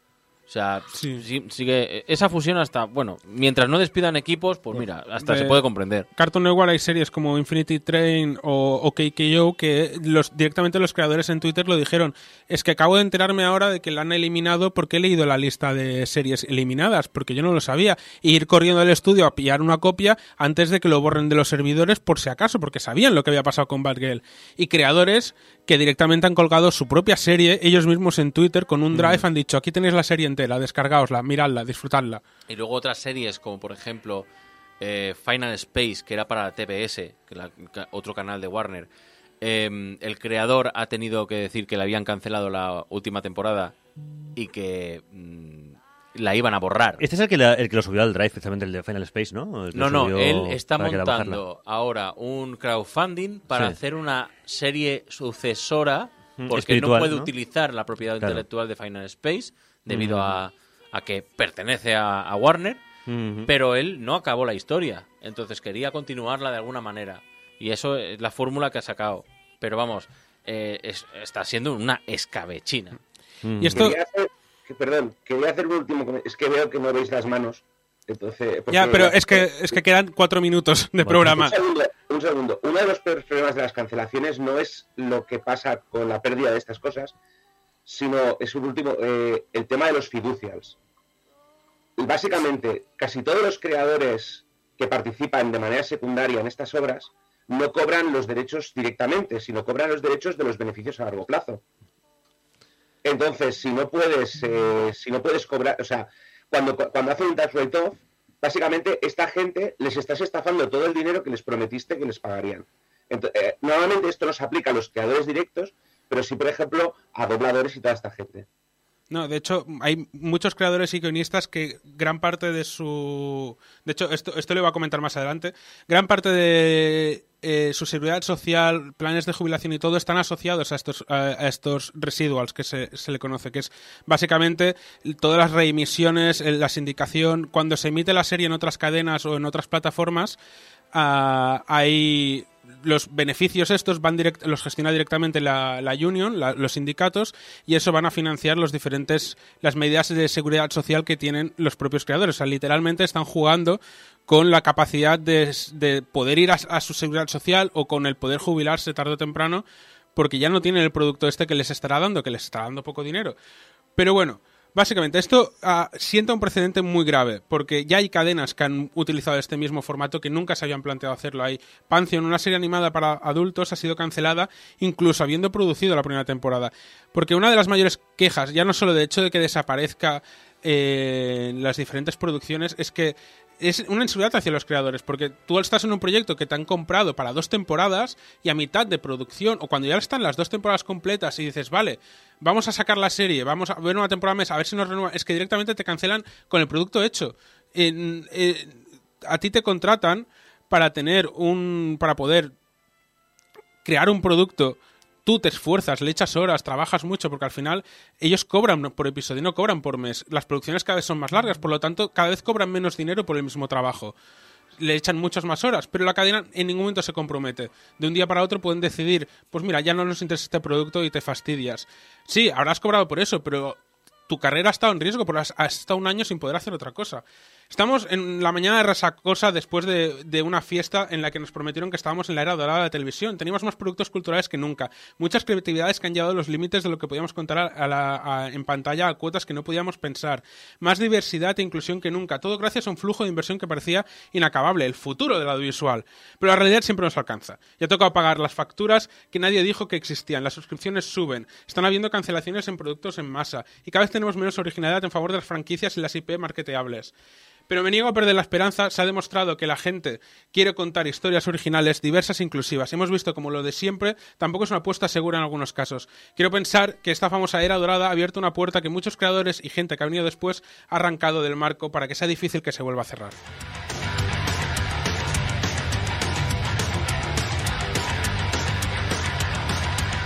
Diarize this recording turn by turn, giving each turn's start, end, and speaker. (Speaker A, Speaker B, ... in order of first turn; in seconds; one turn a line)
Speaker A: 0.5-6.1
Speaker B: 0.9-1.2
Speaker B: 4.7-5.6
Speaker B: 6.2-32.2
Speaker A: 28.9-29.2
Speaker A: 32.5-34.3
Speaker A: 34.8-38.9
Speaker A: 39.4-43.8
Speaker A: 44.4-47.0
Speaker C: 47.0-51.4
Speaker A: 49.7-62.8
Speaker C: 53.5-53.8
Speaker C: 56.4-57.3
Speaker C: 59.9-60.4
Speaker C: 63.1-63.5
Speaker A: 63.5-73.0
Speaker C: 73.4-73.8
Speaker B: 73.6-74.0
Speaker D: 73.7-79.8
Speaker B: 78.7-81.5
Speaker C: 81.0-81.4
Speaker D: 81.3-87.1
Speaker D: 87.9-90.8
Speaker D: 92.0-101.6
Speaker D: 103.0-118.5
Speaker B: 119.1-140.4
Speaker B: 140.9-159.6
Speaker B: 160.2-163.4
Speaker B: 164.0-202.5
Speaker B: 203.8-214.2
Speaker B: 214.8-257.1
Speaker B: 257.7-273.4